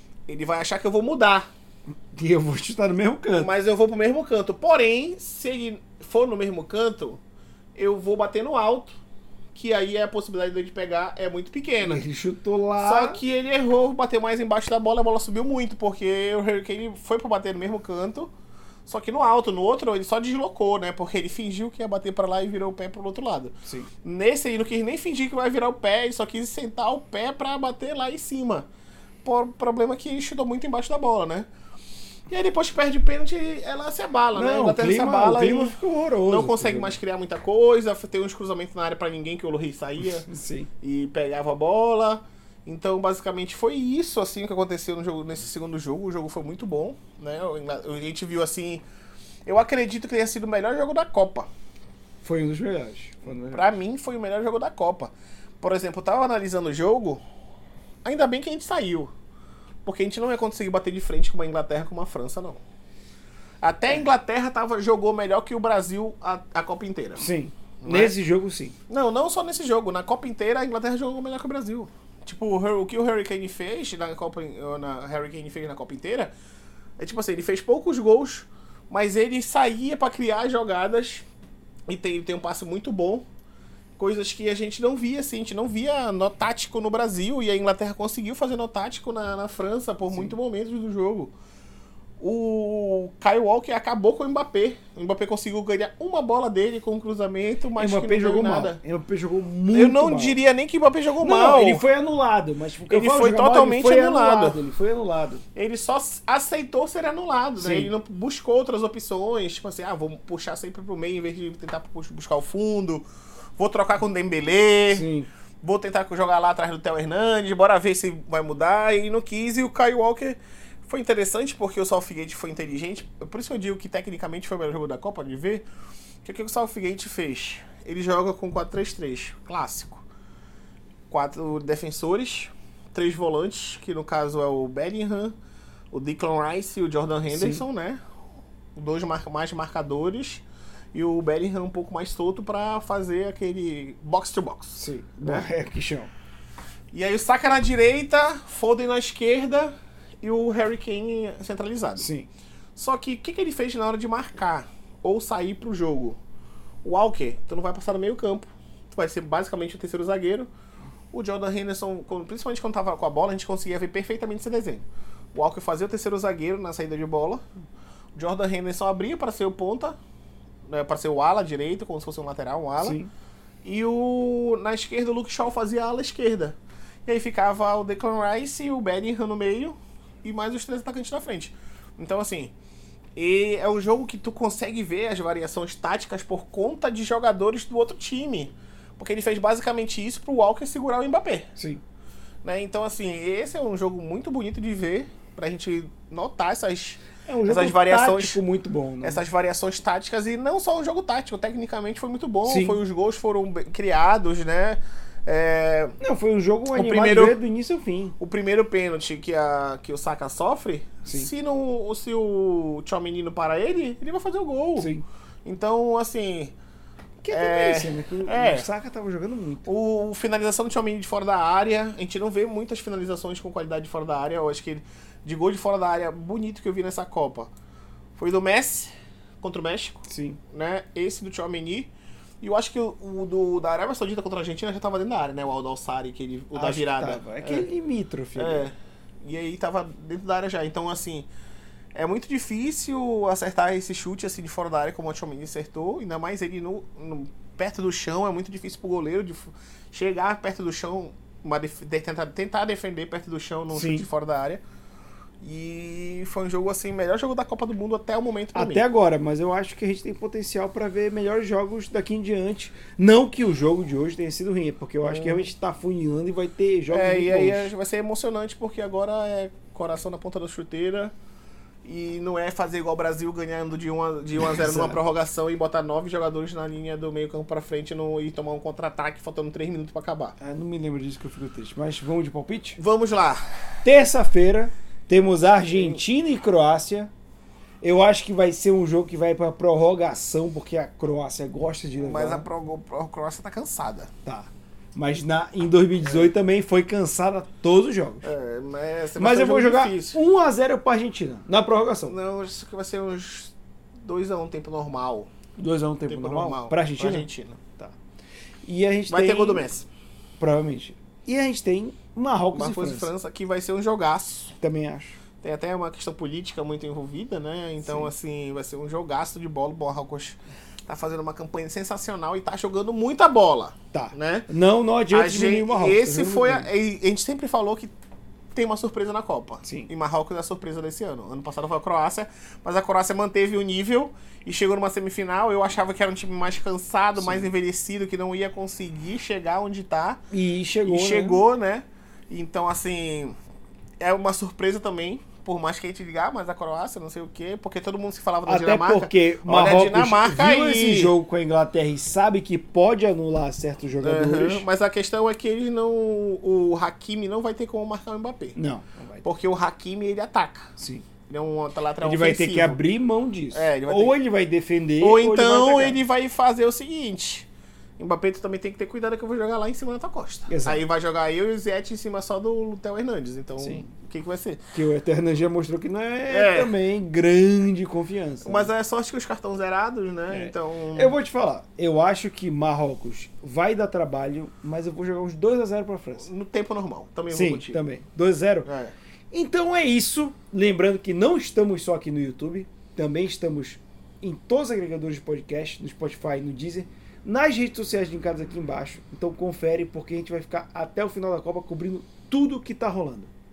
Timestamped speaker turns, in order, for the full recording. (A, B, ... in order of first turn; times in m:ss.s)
0:00.3-0:01.5 A
0:02.1-0:03.5 B
0:03.3-0:07.2 A
0:07.8-0:09.0 A
0:09.5-0:12.0 A
0:11.8-0:13.2 B
0:12.8-0:18.3 A
0:18.9-0:28.7 A
0:29.2-0:31.5 A
0:32.3-0:40.3 A
0:34.3-0:37.0 B
0:40.0-0:40.7 B
0:40.8-0:48.8 A
0:49.5-0:51.5 A
0:52.2-0:53.7 B
0:53.2-0:57.2 A
0:58.0-0:59.1 A
0:59.8-1:02.6 A
1:03.6-1:07.3 A
1:07.2-1:08.7 B
1:07.8-1:08.1 A
1:08.9-1:16.3 A
1:17.0-1:21.2 A
1:21.9-1:23.2 A
1:24.0-1:31.3 A
1:32.2-1:38.8 A
1:37.8-1:40.4 B
1:39.7-1:41.8 A
1:41.2-1:45.4 B
1:42.9-1:44.6 A
1:45.6-1:53.0 A
1:47.6-1:47.9 B
1:53.6-1:55.1 A
1:54.9-1:55.3 B
1:55.6-2:05.7 A
2:06.2-2:10.0 A
2:11.1-2:15.3 A
2:15.9-2:18.0 A
2:17.3-2:17.6 B
2:18.7-2:20.4 A
2:20.9-2:25.4 A
2:24.8-2:26.1 B
2:26.9-2:32.1 A
2:32.0-2:32.3 B
2:32.8-2:36.2 A
2:36.8-2:40.5 A
2:41.1-2:47.4 A
2:48.1-2:50.0 A
2:50.7-2:53.0 A
2:52.8-2:53.1 B
2:53.6-3:02.5 A
3:03.2-3:11.5 A
3:11.6-3:11.8 B
3:12.4-3:18.4 A
3:17.2-3:19.2 B
3:19.0-3:25.9 A
3:22.4-3:22.8 B
3:26.0-3:28.1 B
3:26.7-3:27.4 A
3:28.2-3:34.9 A
3:34.8-3:35.0 B
3:35.4-3:36.5 A
3:37.2-3:39.7 B
3:37.3-3:38.7 A
3:39.6-3:47.5 A
3:48.2-3:48.9 A
3:49.4-3:51.9 A
3:50.1-3:50.4 B
3:52.4-3:57.6 A
3:56.5-3:58.6 B
3:58.4-4:01.3 A
4:01.9-4:14.6 A
4:13.7-4:14.0 B
4:15.4-4:18.8 A
4:18.5-4:27.7 B
4:25.0-4:25.5 A
4:26.9-4:31.1 A
4:31.8-4:40.4 A
4:34.4-4:35.0 B
4:40.4-4:42.8 B
4:42.8-4:43.6 A
4:43.8-4:47.1 B
4:45.7-4:46.0 A
4:47.8-4:52.4 B
4:52.0-4:54.1 A
4:54.2-4:58.3 B
4:56.0-4:56.3 A
4:58.2-5:00.2 A
4:59.2-5:02.2 B
5:02.1-5:03.5 A
5:04.0-5:05.3 A
5:05.6-5:07.3 B
5:06.0-5:07.6 A
5:08.6-5:09.6 B
5:09.1-5:09.9 A
5:10.4-5:13.1 B
5:12.5-5:14.6 A
5:14.6-5:15.2 B
5:15.4-5:24.5 A
5:17.8-5:18.1 B
5:23.9-5:26.7 B
5:25.1-5:27.9 A
5:28.5-5:40.2 A
5:29.6-5:29.9 B
5:37.2-5:37.5 B
5:40.3-5:41.4 B
5:40.8-5:43.3 A
5:44.0-5:51.1 A
5:48.4-5:54.7 B
5:54.0-5:58.6 A
5:58.5-5:59.2 B
5:59.2-6:00.7 A
6:00.8-6:01.0 B
6:01.3-6:02.8 A
6:02.0-6:06.0 B
6:03.5-6:04.2 A
6:05.0-6:07.5 A
6:08.0-6:14.7 A
6:10.5-6:10.8 B
6:13.6-6:13.8 B
6:14.7-6:18.7 B
6:16.3-6:16.7 A
6:18.4-6:21.2 A
6:20.3-6:26.3 B
6:26.2-6:27.8 A
6:27.3-6:28.7 B
6:28.6-6:28.9 A
6:29.3-6:43.3 B